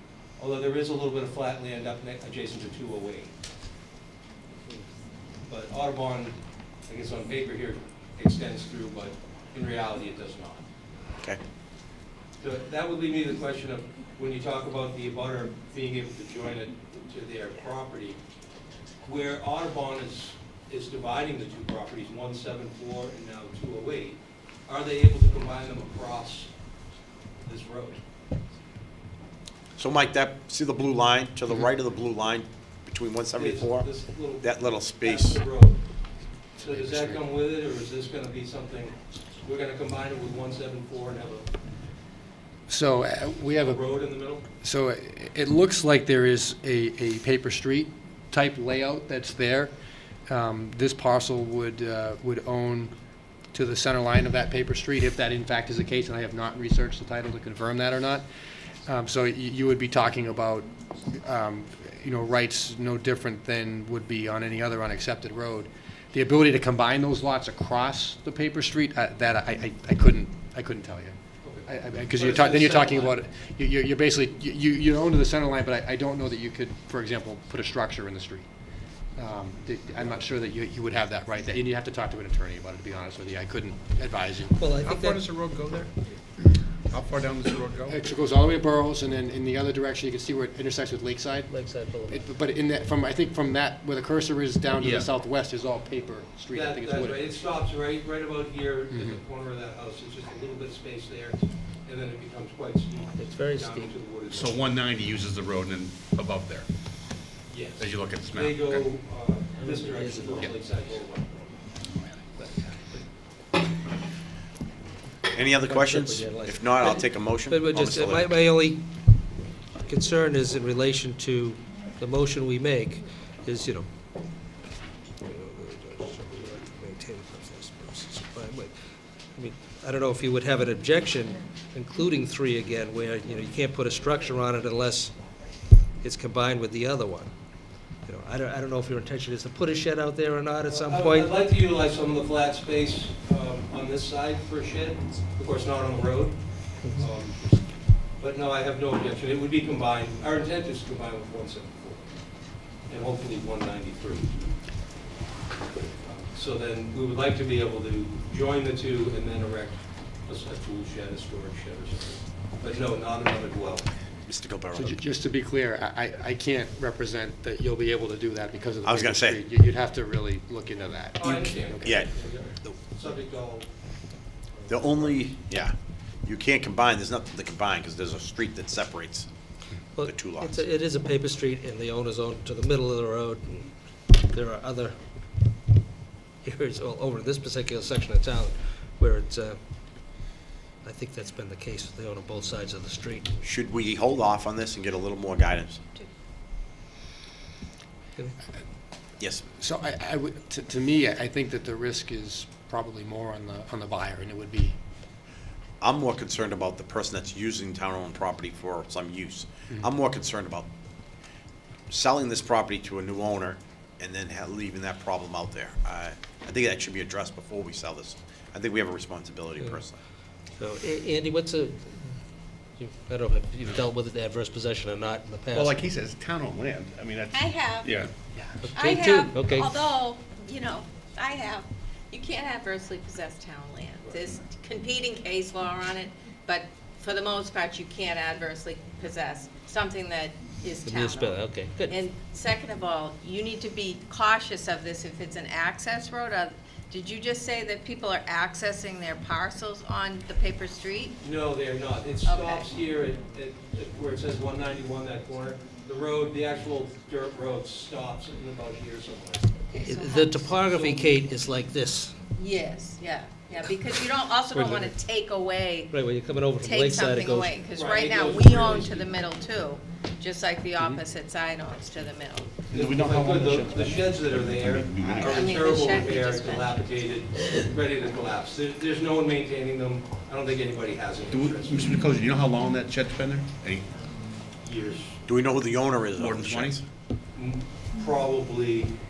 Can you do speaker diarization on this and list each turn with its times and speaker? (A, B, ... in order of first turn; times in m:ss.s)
0:00.4-0:03.3 A
0:05.4-0:10.6 A
0:12.4-0:18.2 A
0:19.0-0:26.5 A
0:27.4-0:28.0 A
0:29.8-0:33.9 B
0:33.3-0:35.8 A
0:34.4-0:35.4 B
0:36.6-0:41.5 A
0:36.7-0:37.2 C
0:42.7-0:43.8 C
0:43.6-0:44.4 A
0:44.6-0:49.7 C
0:50.3-0:52.9 C
0:53.5-0:58.2 C
0:58.8-1:11.2 C
1:11.4-1:13.2 A
1:11.7-1:18.5 C
1:19.2-1:24.6 C
1:24.5-1:25.2 D
1:24.8-1:25.9 E
1:26.8-1:28.0 E
1:27.9-1:37.3 C
1:31.5-1:32.3 D
1:34.8-1:35.1 E
1:36.5-1:44.7 A
1:43.1-1:44.0 D
1:44.3-1:46.7 E
1:47.5-1:51.4 A
1:47.8-1:48.9 E
1:49.6-1:50.5 D
1:52.4-1:52.7 A
1:55.3-1:58.4 B
1:55.6-1:58.9 D
1:59.8-2:03.9 D
2:05.2-2:08.7 D
2:09.3-2:15.1 D
2:15.9-2:17.3 D
2:17.9-2:21.3 D
2:20.7-2:32.1 A
2:32.9-2:34.4 A
2:36.0-2:43.9 A
2:44.2-2:45.0 B
2:44.7-2:52.1 C
2:48.8-2:49.4 B
2:51.2-2:53.7 A
2:51.8-2:52.1 B
2:54.5-2:55.2 A
2:54.7-2:59.3 B
2:59.9-3:05.0 D
3:00.0-3:00.6 B
3:06.4-3:09.6 D
3:10.8-3:13.4 D
3:13.4-3:15.8 B
3:19.2-3:19.4 B
3:19.6-3:24.8 C
3:25.8-3:30.7 B
3:31.9-3:40.0 B
3:40.6-3:42.1 D
3:42.8-3:45.8 D
3:45.5-3:48.1 E
3:47.3-3:47.9 F
3:48.3-3:48.7 C
3:48.6-3:49.7 D
3:48.7-4:11.2 F
4:00.8-4:02.0 D
4:11.2-4:19.4 A
4:12.2-4:12.7 F
4:19.7-4:20.6 F
4:19.8-4:22.2 D
4:20.6-4:21.1 A
4:22.3-4:26.0 F
4:24.4-4:25.0 D
4:25.9-4:27.6 D
4:26.6-4:32.7 F
4:27.7-4:29.2 A
4:32.7-4:35.8 E
4:32.7-4:41.9 A
4:35.2-4:36.9 F
4:41.3-4:43.9 E
4:44.6-4:45.2 A
4:45.2-4:46.8 B
4:46.1-4:46.8 E
4:47.3-4:49.0 A